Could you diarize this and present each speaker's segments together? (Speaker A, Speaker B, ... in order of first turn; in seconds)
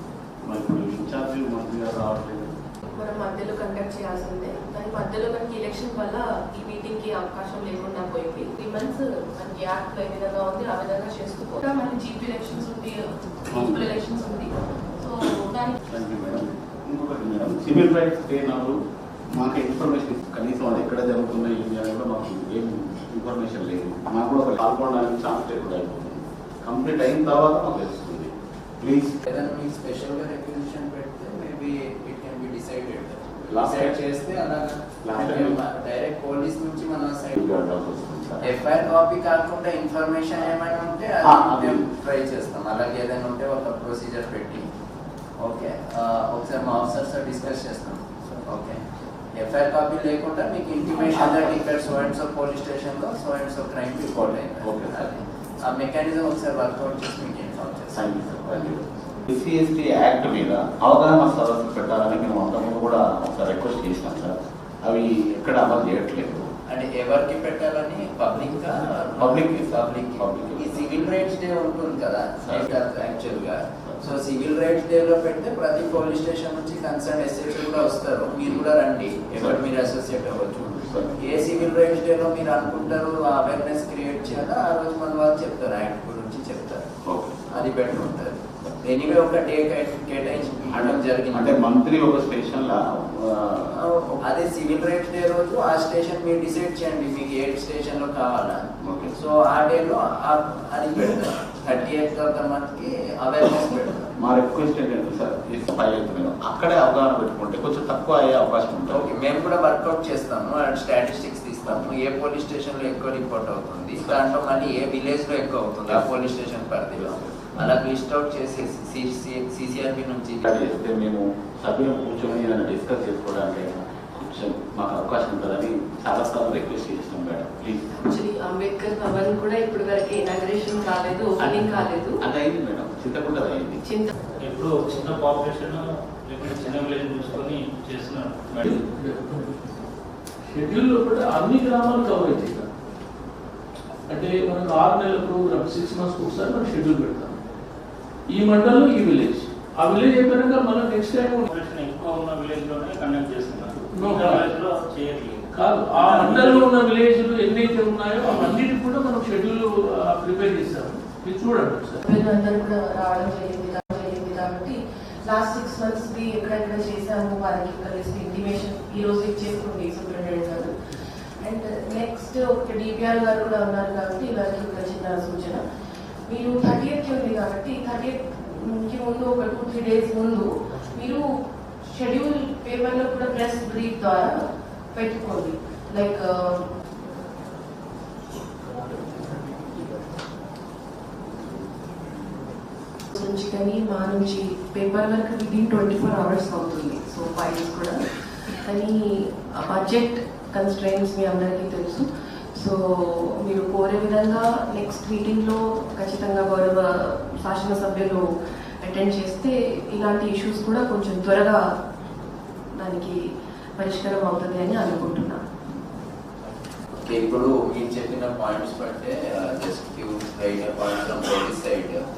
Speaker A: 0.4-2.5, 15.9-18.8, 19.3-29.2, 33.5-34.0, 35.0-35.6, 37.4-38.6, 41.2-41.8, 51.0-51.6, 54.6-55.0, 57.9-66.5, 69.2-71.0, 72.4-72.7, 79.3-79.7, 80.7-81.5, 87.0-87.4, 90.7-93.8, 98.8-99.1, 104.2-109.1, 120.5-127.9, 131.4-133.8
Speaker B: 2.9-15.8, 128.0-132.2, 162.0-170.7, 171.4-175.6, 176.3-181.3, 181.9-184.4, 184.9-186.7, 193.1-198.0, 198.7-208.2, 208.8-211.6, 212.8-213.2, 213.8-215.4
Speaker C: 29.2-37.4, 38.4-44.7, 45.4-48.8, 49.3-58.2, 66.7-86.8, 87.5-91.6, 93.7-98.6, 99.2-104.1, 108.9-120.5, 217.0-222.0
Speaker D: 134.4-138.7, 151.5-155.5, 156.0-156.6
Speaker E: 138.6-139.7, 140.5-142.7, 144.1-147.4, 148.3-151.5, 153.8-154.5, 155.5-162.0